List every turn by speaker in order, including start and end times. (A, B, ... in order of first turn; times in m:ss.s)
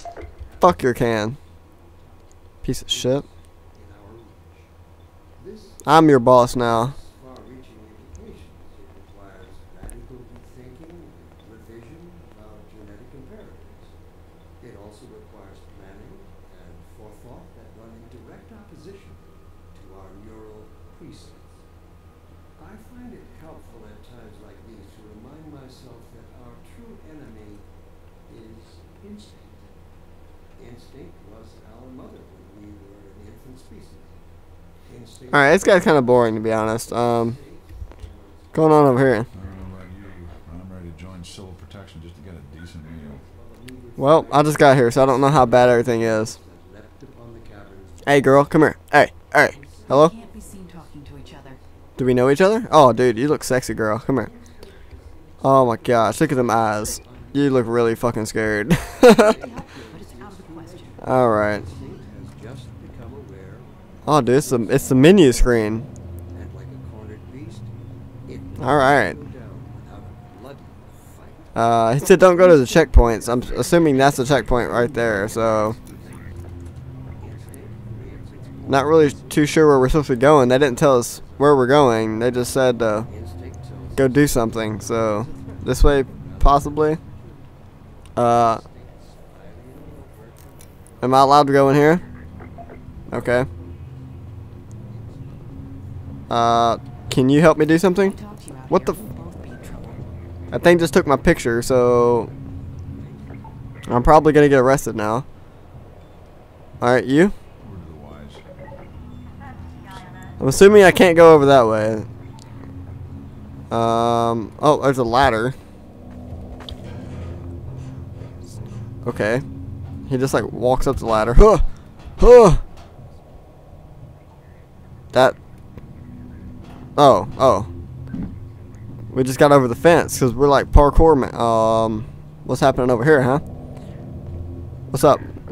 0:00.4-0:04.7 A
0:00.6-0:01.4 B
0:02.6-0:03.2 B
0:05.4-0:14.0 A
0:05.8-0:06.9 B
0:14.6-0:21.6 A
0:22.5-0:27.7 A
0:28.3-0:29.8 A
0:30.6-0:34.3 A
0:34.8-0:41.2 A
0:35.3-0:37.4 B
0:38.5-0:39.3 B
0:39.3-0:43.2 C
0:42.8-0:48.4 A
0:44.0-0:46.4 B
0:48.0-0:50.1 B
0:49.4-1:07.7 A
0:49.9-0:51.6 D
0:52.0-0:54.3 B
0:55.4-0:59.3 B
0:59.1-1:01.0 D
1:01.0-1:01.6 B
1:04.0-1:05.9 B
1:08.2-1:12.2 A
1:08.6-1:09.2 B
1:11.5-1:15.8 B
1:12.7-1:16.5 A
1:17.2-1:32.2 A
1:18.6-1:23.1 B
1:24.0-1:27.0 B
1:28.2-1:28.6 B
1:31.0-1:32.0 B
1:33.1-1:33.5 B
1:33.1-1:34.1 A
1:34.8-1:35.9 A
1:36.3-1:38.2 B
1:37.9-1:40.0 D
1:38.7-1:39.0 B
1:40.5-1:42.3 B
1:42.8-1:44.2 A
1:43.9-1:45.2 B
1:46.8-1:47.3 B
1:47.6-1:48.4 C
1:50.4-1:52.1 B
1:53.7-1:55.6 B
1:59.0-1:59.4 B
2:00.1-2:01.6 B
2:02.2-2:02.6 B
2:07.0-2:07.7 B
2:09.1-2:13.4 B
2:14.9-2:15.3 B